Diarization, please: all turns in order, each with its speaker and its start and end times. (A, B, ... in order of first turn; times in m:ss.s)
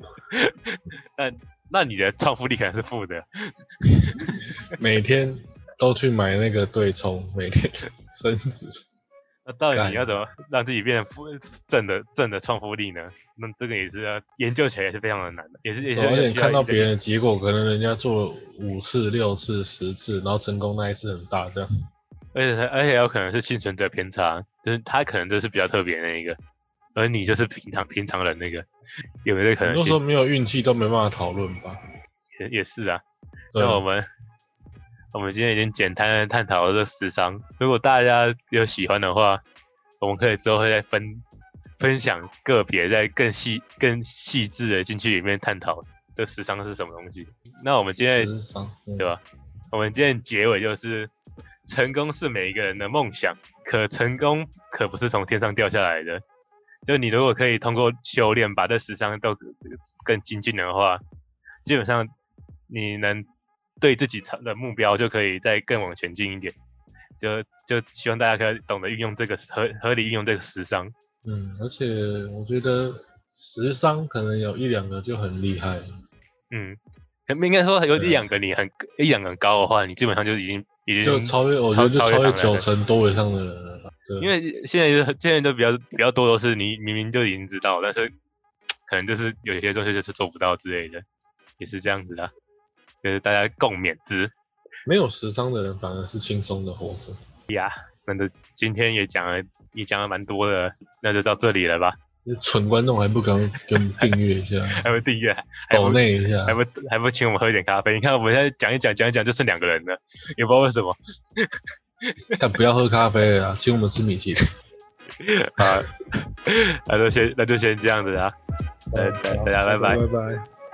0:00.3-0:03.5 A
0:04.0-0:04.4 A
0:04.1-0:08.8 B
0:09.4-0:16.9 A
0:09.7-0:10.1 B
0:16.0-0:21.7 B
0:22.3-0:26.4 A
0:26.9-0:28.7 A
0:29.2-0:30.0 A
0:29.6-0:31.8 B
0:32.4-0:33.0 A
0:33.5-0:33.8 B
0:33.6-0:34.1 A
0:35.1-0:39.4 A
0:40.0-0:41.2 A
0:41.8-0:48.3 A
0:48.0-0:49.1 B
0:49.7-0:51.1 A
0:51.6-0:56.2 A
0:56.8-1:01.0 A
1:01.6-1:02.1 A
1:02.7-1:03.2 A
1:03.8-1:06.6 A
1:07.2-1:10.9 A
1:11.2-1:15.8 B
1:16.5-1:22.6 A
1:18.0-1:18.2 B
1:21.0-1:24.3 B
1:24.2-1:28.1 A
1:28.9-1:31.0 A
1:31.6-1:32.3 A
1:33.0-1:34.3 A
1:34.8-1:37.2 B
1:37.5-1:42.0 A
1:42.2-1:44.8 B
1:44.7-1:51.5 A
1:45.7-1:46.6 B
1:52.4-1:54.4 B
1:55.2-1:55.9 A
1:56.4-1:58.3 A
1:58.9-2:00.4 B
1:58.9-2:00.0 A